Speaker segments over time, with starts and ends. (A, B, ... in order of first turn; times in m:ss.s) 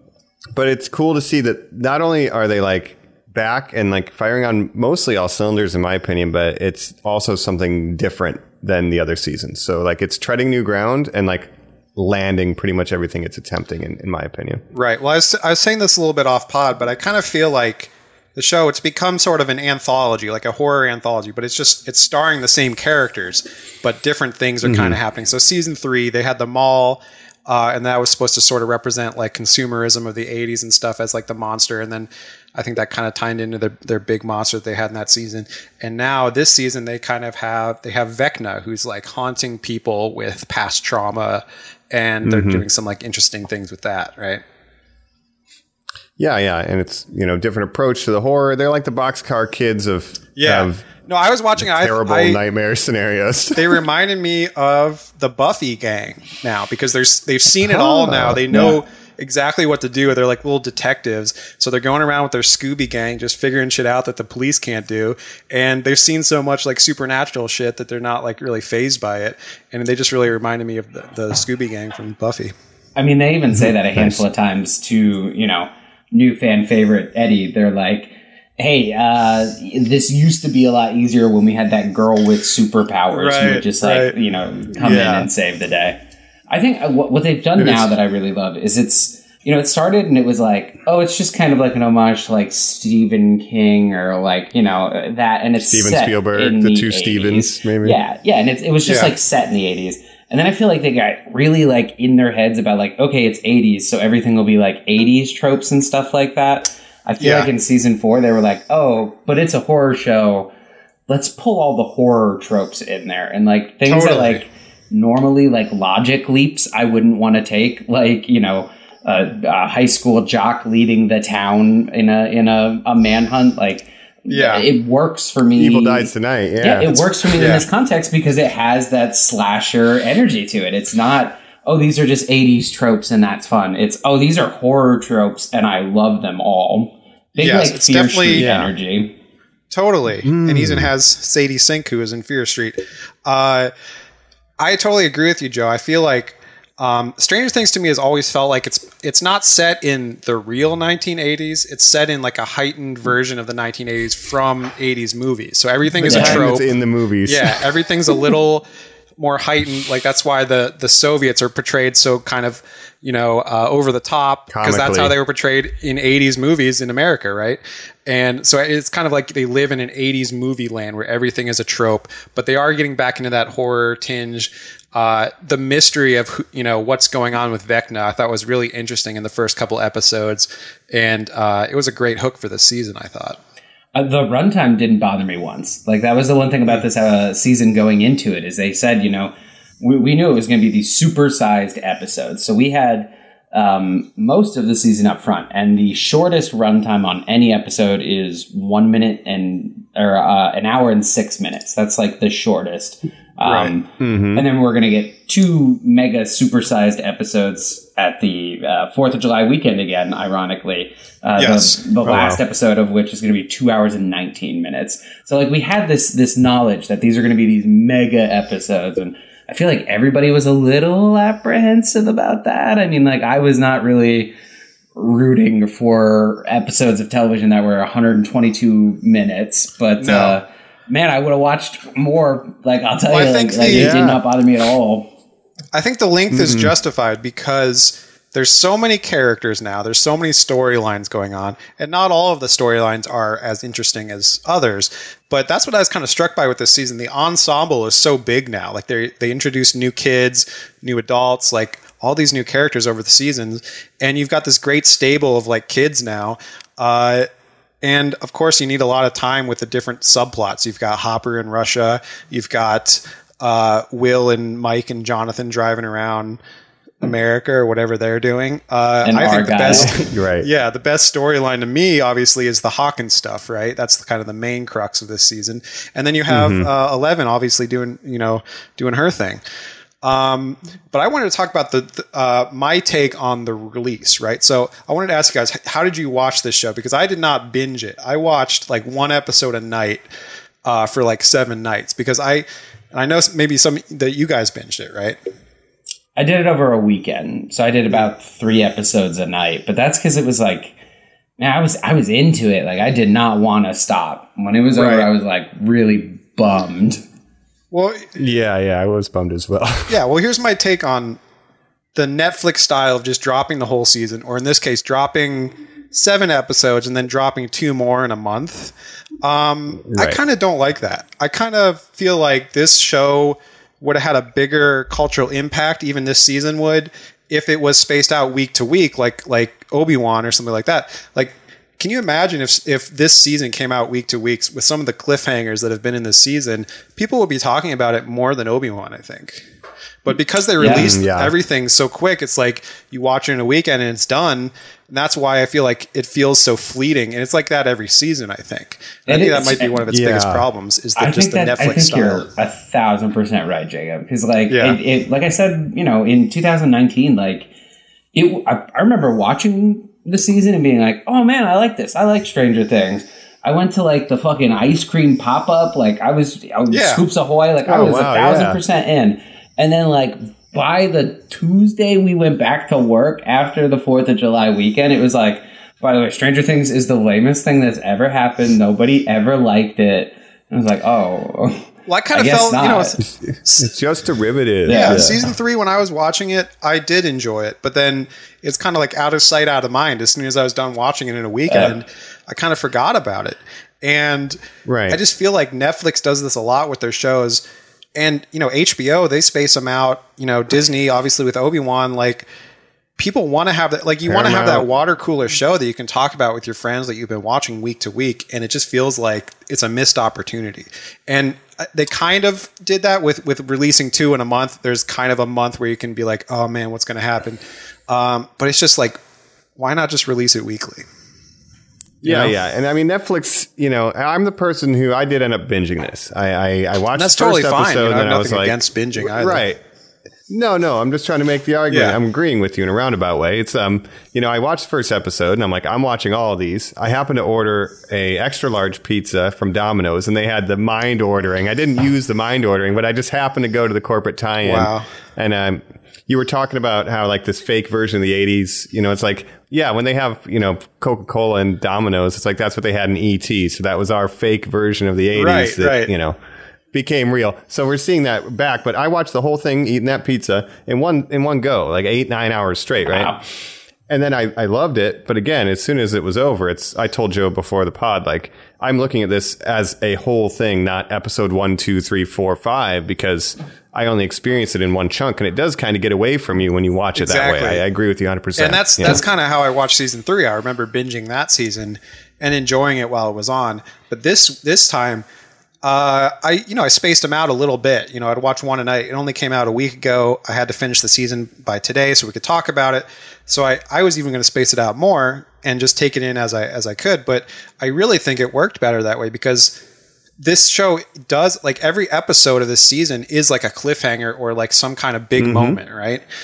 0:00.5-0:14.6 A
0:14.7-0:44.4 B
0:24.6-0:25.0 A
0:42.2-0:42.6 A
0:46.2-0:50.8 A
0:50.4-0:52.4 B
0:51.6-0:53.8 A
0:53.6-1:12.5 B
0:57.7-0:58.8 A
1:13.0-1:26.0 C
1:13.6-1:14.2 A
1:23.1-1:24.1 B
1:24.8-1:25.3 A
1:26.5-1:50.5 C
1:27.6-1:27.9 A
1:35.6-1:38.0 A
1:38.8-1:39.1 B
1:47.2-1:47.5 B
1:51.1-2:19.2 C
1:53.9-1:54.4 B
2:04.3-2:04.7 B
2:05.5-2:07.5 A
2:07.4-2:07.6 B
2:17.4-2:18.5 B
2:18.4-2:18.7 A
2:19.7-2:23.7 B
2:20.2-2:20.9 A
2:24.6-2:36.7 B
2:36.0-2:37.6 A
2:36.1-2:36.4 C
2:37.2-2:38.7 B
2:39.2-3:03.4 B
2:44.5-2:45.2 A
3:04.0-3:44.3 C
3:23.4-3:23.7 B
3:24.0-3:24.4 A
3:31.4-3:31.8 B
3:32.1-3:32.4 A
3:45.0-3:55.1 C
3:50.0-3:50.4 B
3:53.1-3:53.9 B
3:53.7-3:54.2 A
3:55.7-4:17.3 B
3:56.3-3:56.7 A
4:17.8-4:26.4 B
4:27.0-4:39.4 B
4:29.0-4:29.9 C
4:29.7-4:30.5 A
4:36.3-4:36.7 A
4:40.0-4:50.0 B
4:50.6-4:55.2 B
4:56.2-5:00.8 C
5:01.4-5:07.0 C
5:04.7-5:05.1 B
5:07.7-5:08.1 B
5:08.2-5:10.0 A
5:09.9-5:11.2 B
5:12.0-5:39.4 B
5:19.9-5:20.2 A
5:40.0-5:52.2 B
5:40.6-5:40.9 C
5:40.6-5:41.3 A
5:49.1-5:49.8 C
5:49.9-5:50.5 A
5:51.0-5:57.5 C
5:54.5-5:54.8 B
5:58.1-6:23.0 C
6:06.7-6:07.0 B
6:07.7-6:08.6 A
6:21.9-6:23.7 B
6:23.1-6:25.1 A
6:24.7-6:25.1 C
6:24.7-6:37.4 B
6:31.5-6:31.8 C
6:34.7-6:35.0 A
6:38.0-6:42.3 B
6:43.0-6:59.0 B
6:44.1-6:44.7 A
6:59.6-7:00.9 B
7:02.0-7:02.4 B
7:02.0-7:09.6 A
7:07.0-7:09.5 B
7:10.3-7:36.2 A
7:11.7-7:12.0 B
7:24.4-7:24.9 B
7:35.2-7:35.9 B
7:36.7-7:43.2 A
7:42.8-7:43.2 C
7:43.9-7:59.0 A
7:57.0-7:57.6 B
7:58.4-8:05.1 B
8:05.6-8:19.6 B
8:20.2-8:26.0 B
8:25.2-8:25.6 A